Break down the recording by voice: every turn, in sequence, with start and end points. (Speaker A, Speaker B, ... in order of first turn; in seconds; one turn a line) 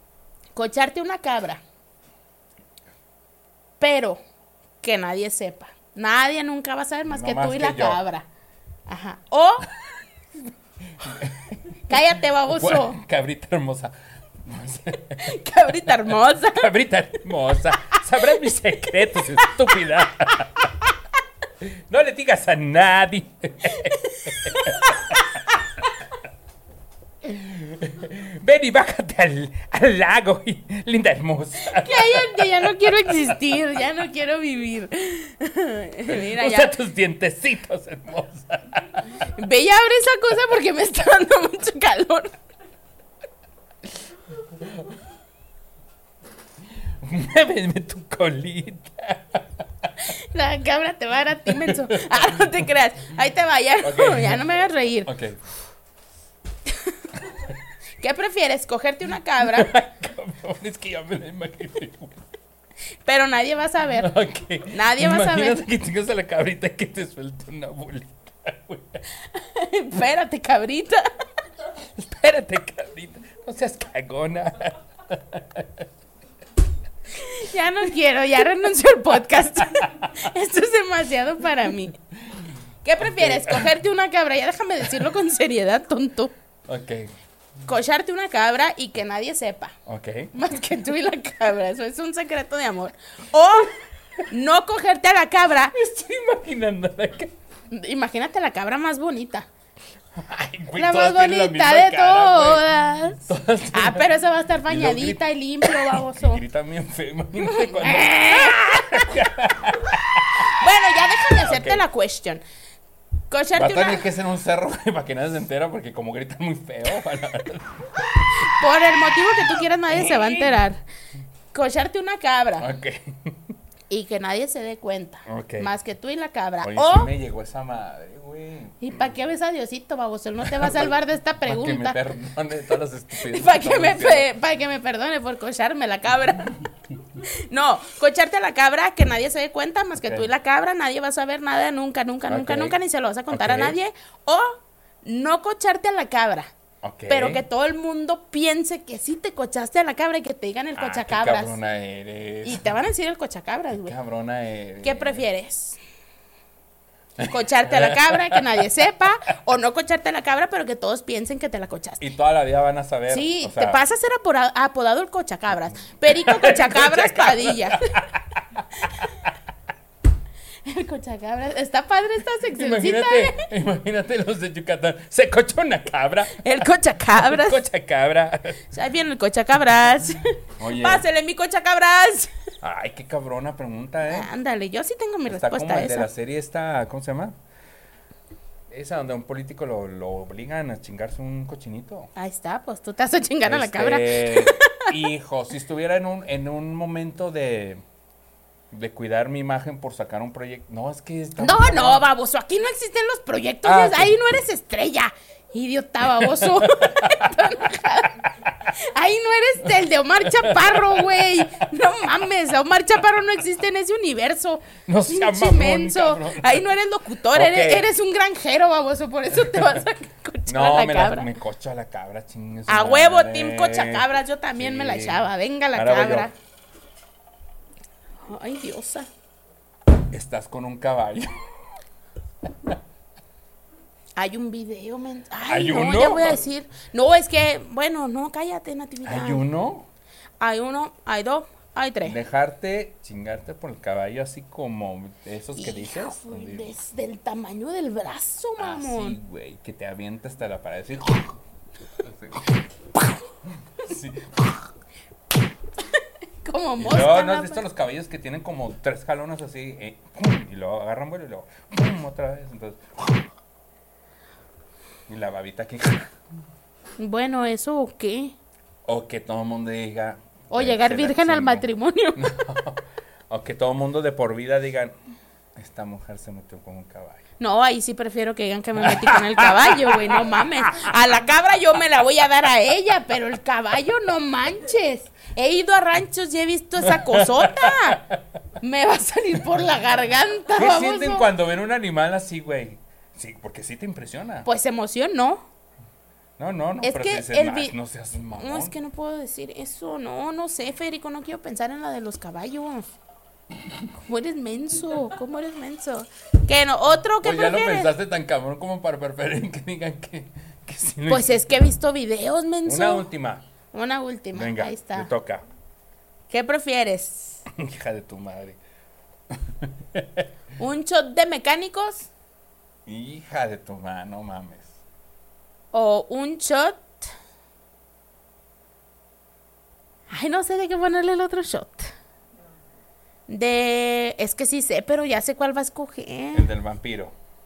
Speaker A: 0.5-1.6
Speaker A: 3.8-4.2
Speaker A: 4.8-8.2
Speaker B: 7.1-8.0
Speaker A: 8.9-9.7
Speaker B: 11.0-11.8
Speaker A: 11.9-13.0
Speaker B: 12.5-15.4
Speaker A: 15.2-16.7
Speaker B: 16.3-20.6
Speaker B: 21.6-25.2
Speaker A: 23.8-25.4
Speaker B: 27.3-33.1
Speaker A: 31.6-36.8
Speaker B: 36.0-39.0
Speaker A: 39.3-42.4
Speaker B: 47.0-49.9
Speaker A: 50.0-55.1
Speaker B: 51.5-52.2
Speaker B: 53.8-54.5
Speaker B: 55.0-55.4
Speaker A: 56.6-57.0
Speaker A: 58.0-59.7
Speaker B: 59.4-62.2
Speaker A: 63.0-64.1
Speaker B: 64.0-69.0
Speaker A: 64.7-65.7
Speaker A: 69.3-71.0
Speaker B: 72.0-75.8
Speaker A: 77.1-82.0
Speaker A: 82.8-86.3
Speaker B: 83.0-83.7
Speaker B: 86.7-87.1
Speaker A: 87.7-89.7
Speaker B: 89.8-90.3
Speaker A: 90.3-93.8
Speaker A: 94.3-95.7
Speaker B: 95.7-97.3
Speaker A: 97.7-99.5
Speaker B: 100.2-102.7
Speaker A: 100.7-106.4
Speaker B: 103.2-104.1
Speaker B: 104.7-110.6
Speaker A: 107.4-109.3
Speaker A: 110.5-112.4
Speaker B: 111.3-111.8
Speaker A: 113.3-114.0
Speaker B: 113.5-118.6
Speaker A: 118.4-120.8
Speaker B: 119.9-120.5
Speaker A: 121.5-122.7
Speaker B: 122.6-123.4
Speaker A: 123.9-127.1
Speaker B: 125.2-125.7
Speaker B: 126.6-128.8
Speaker A: 128.8-132.0
Speaker B: 130.5-130.9
Speaker B: 131.4-134.3
Speaker A: 133.2-136.7
Speaker A: 137.2-146.5
Speaker B: 140.0-140.3
Speaker B: 142.3-142.8
Speaker B: 143.3-143.8
Speaker B: 146.8-147.4
Speaker A: 147.1-151.6
Speaker B: 150.8-152.7
Speaker A: 152.4-153.9
Speaker B: 153.8-155.2
Speaker A: 154.8-155.8
Speaker B: 157.2-158.6
Speaker A: 157.3-162.0
Speaker B: 162.0-163.8
Speaker A: 163.1-167.9
Speaker B: 166.0-169.3
Speaker A: 170.6-173.5
Speaker B: 172.5-176.5
Speaker A: 176.3-177.6
Speaker B: 177.1-178.7
Speaker A: 178.7-182.3
Speaker B: 180.6-181.0
Speaker B: 182.6-184.3
Speaker A: 184.1-186.1
Speaker B: 185.3-187.3
Speaker B: 188.7-192.1
Speaker A: 192.2-194.9
Speaker B: 193.4-197.8
Speaker B: 198.7-202.0
Speaker A: 201.4-221.3
Speaker B: 203.6-204.2
Speaker B: 206.2-207.4
Speaker B: 208.2-208.7
Speaker B: 210.2-211.2
Speaker B: 214.8-216.7
Speaker B: 217.3-217.9
Speaker B: 220.5-226.3
Speaker A: 222.7-226.3
Speaker A: 228.2-229.1
Speaker B: 230.1-231.4
Speaker A: 234.2-239.4
Speaker B: 235.5-236.4
Speaker B: 239.0-239.9
Speaker A: 240.4-242.2
Speaker B: 242.0-246.7
Speaker A: 245.6-249.2
Speaker B: 248.6-251.4
Speaker B: 252.0-252.6
Speaker B: 253.6-254.6
Speaker A: 255.9-257.6
Speaker B: 256.8-263.2
Speaker B: 265.1-266.1
Speaker A: 267.0-268.4
Speaker B: 268.9-274.9
Speaker A: 270.5-272.4
Speaker B: 275.6-277.2
Speaker A: 277.4-288.0
Speaker B: 278.8-280.9
Speaker B: 286.8-288.2
Speaker A: 288.6-291.3
Speaker B: 290.5-294.5
Speaker A: 294.4-295.4
Speaker B: 296.4-298.7
Speaker A: 296.8-297.7
Speaker A: 298.4-302.9
Speaker A: 303.9-307.9
Speaker B: 307.2-311.4
Speaker A: 311.1-313.1
Speaker B: 312.6-313.4
Speaker A: 313.7-315.1
Speaker B: 314.3-315.4
Speaker A: 316.3-317.4
Speaker B: 317.5-318.6
Speaker B: 319.3-320.3
Speaker A: 320.6-322.1
Speaker B: 322.9-324.7
Speaker A: 325.7-327.1
Speaker A: 330.1-331.9
Speaker A: 333.3-336.5
Speaker B: 336.3-337.1